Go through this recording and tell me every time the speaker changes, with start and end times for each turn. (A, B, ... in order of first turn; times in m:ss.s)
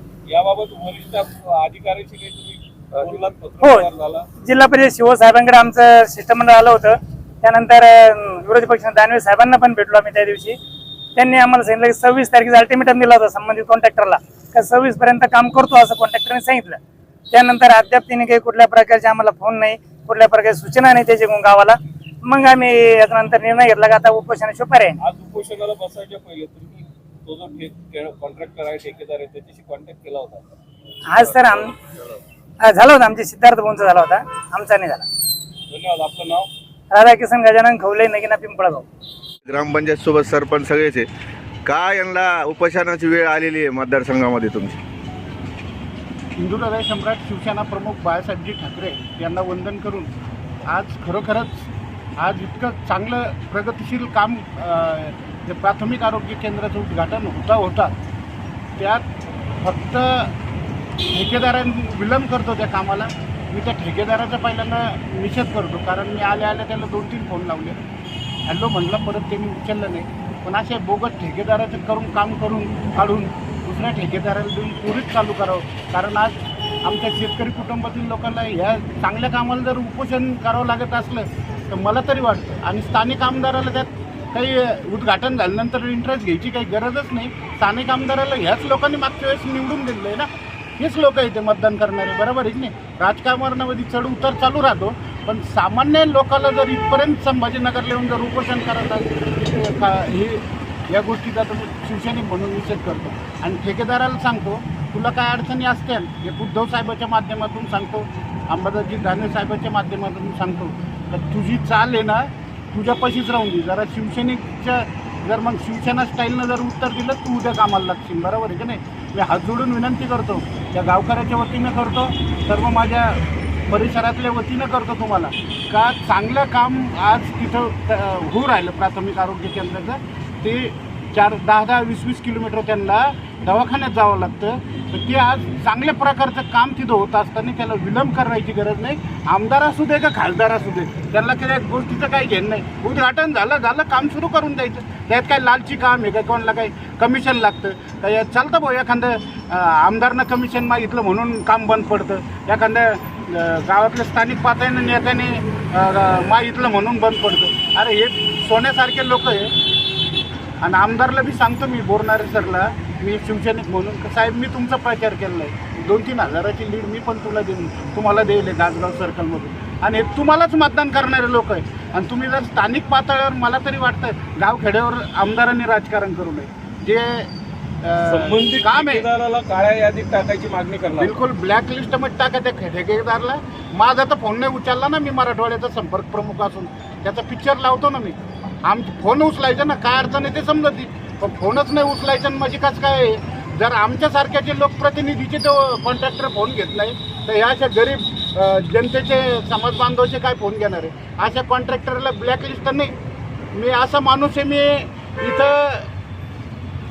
0:00.3-0:04.2 A
0:03.6-0:03.9 B
0:04.4-0:10.6 B
0:11.2-0:16.8 B
0:17.3-0:25.0 B
0:25.0-0:30.4 A
0:31.1-0:31.7 B
0:32.6-0:35.0 B
0:35.7-0:36.5 A
0:36.9-0:38.8 B
0:39.4-0:41.1 C
0:41.6-0:44.8 C
0:46.4-0:50.1 D
0:50.6-0:51.7 D
0:52.2-0:57.9 D
0:58.8-0:59.0 D
0:59.6-1:00.3 D
1:01.1-1:07.8 D
1:08.5-2:39.5 D
2:40.6-2:57.3 D
2:57.8-2:59.0 D
2:58.1-3:01.2 A
3:01.0-3:22.9 D
3:23.5-3:25.9 D